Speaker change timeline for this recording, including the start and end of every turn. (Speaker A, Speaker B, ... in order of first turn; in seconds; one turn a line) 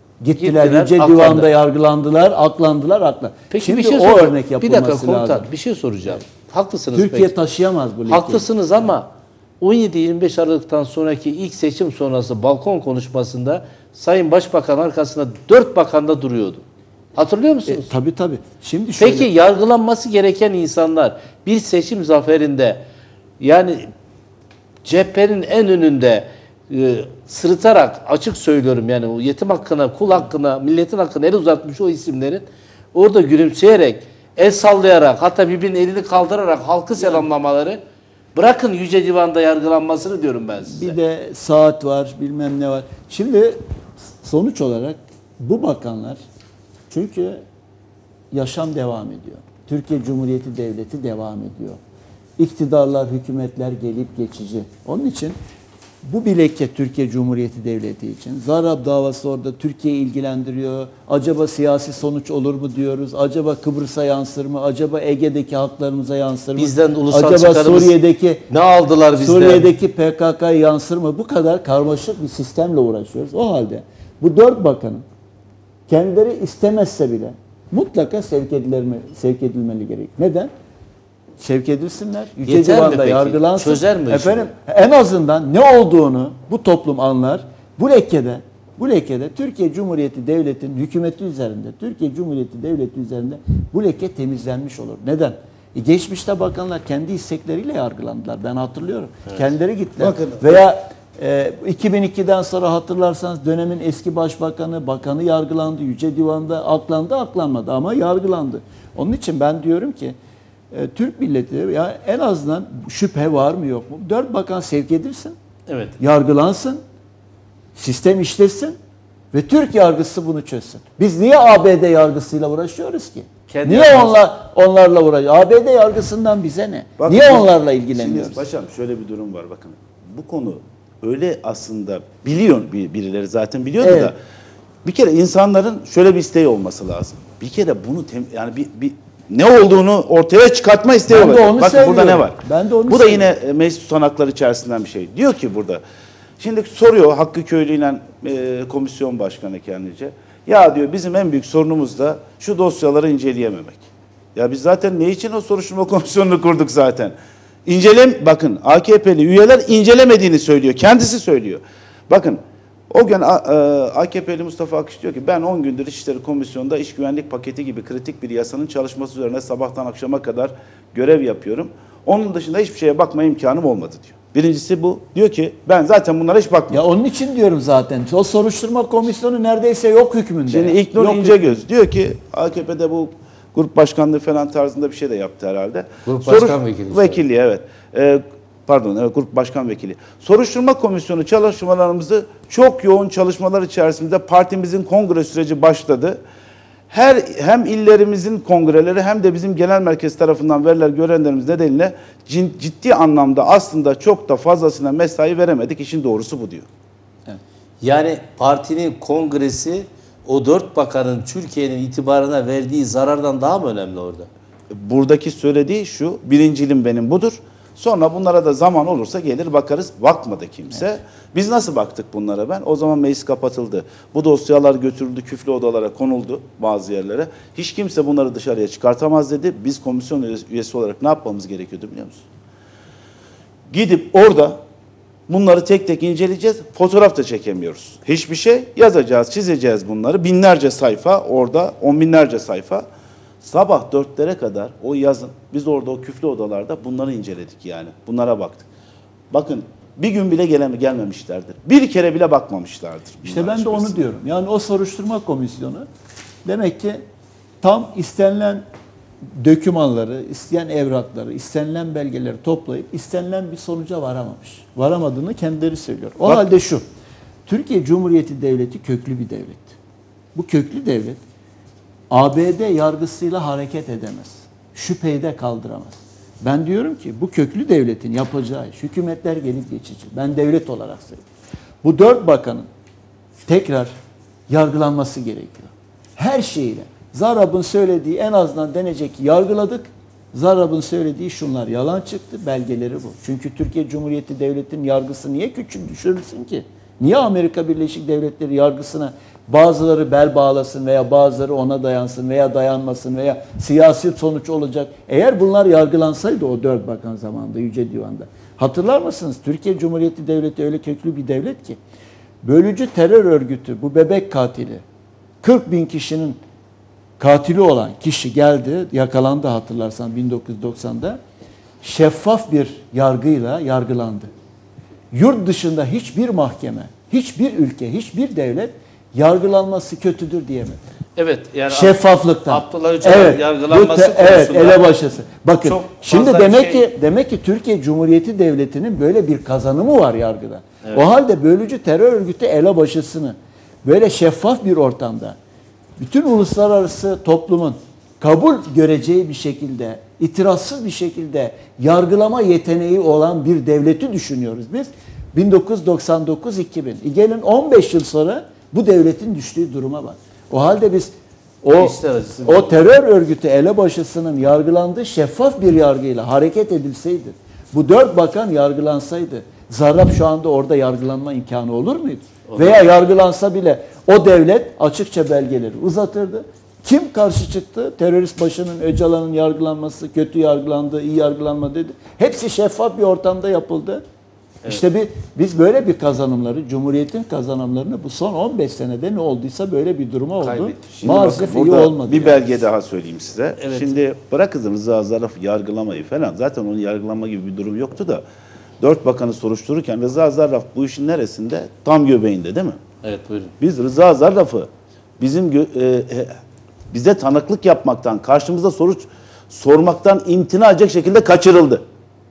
Speaker A: 0.2-5.5
Speaker B: 0.4-1.5
Speaker B: 3.5-7.3
Speaker A: 6.9-8.4
Speaker B: 8.1-9.1
Speaker B: 9.6-16.6
Speaker B: 17.1-17.9
Speaker A: 17.7-19.3
Speaker B: 19.0-22.8
Speaker B: 23.4-23.9
Speaker B: 24.8-37.8
Speaker B: 38.3-41.0
Speaker A: 40.7-46.2
Speaker A: 46.9-47.4
Speaker A: 48.3-51.8
Speaker A: 52.4-55.4
Speaker A: 56.0-68.4
Speaker B: 66.6-68.0
Speaker B: 68.5-69.7
Speaker A: 69.2-75.0
Speaker A: 75.9-80.5
Speaker A: 81.4-110.2
Speaker B: 82.5-84.5
Speaker C: 100.0-100.6
Speaker A: 110.7-115.3
Speaker B: 115.7-116.0
Speaker A: 116.0-116.8
Speaker A: 117.8-118.8
Speaker A: 119.3-128.4
Speaker B: 123.5-124.2
Speaker C: 127.0-134.2
Speaker A: 133.8-134.1
Speaker C: 134.8-145.8
Speaker A: 141.1-143.3
Speaker C: 146.4-153.8
Speaker C: 154.3-157.1
Speaker C: 157.7-176.8
Speaker A: 176.7-181.5
Speaker C: 180.5-196.2
Speaker B: 186.1-187.2
Speaker C: 196.9-206.7
Speaker B: 207.8-214.3
Speaker C: 214.7-232.2
Speaker C: 233.7-234.6
Speaker C: 235.3-242.8
Speaker C: 243.4-248.7
Speaker C: 249.3-254.1
Speaker A: 253.2-255.9
Speaker A: 256.4-257.0
Speaker A: 257.6-258.6
Speaker A: 259.4-266.8
Speaker C: 266.2-266.5
Speaker A: 267.5-269.7
Speaker A: 270.3-271.2
Speaker A: 272.1-281.2
Speaker A: 281.8-282.7
Speaker A: 283.4-283.9
Speaker A: 284.5-311.8
Speaker A: 312.4-314.8
Speaker A: 315.4-316.4
Speaker A: 317.2-321.2
Speaker A: 321.8-324.3
Speaker A: 325.1-330.8
Speaker B: 331.1-334.9
Speaker A: 331.7-345.4
Speaker B: 335.6-336.9
Speaker A: 346.0-384.0
Speaker B: 361.7-362.8
Speaker B: 372.4-372.8
Speaker A: 384.6-392.4
Speaker B: 390.4-390.8
Speaker C: 390.9-398.2
Speaker B: 393.6-393.9
Speaker C: 398.8-402.8
Speaker B: 403.0-403.5
Speaker C: 403.6-404.7
Speaker C: 405.2-406.4
Speaker C: 406.9-411.8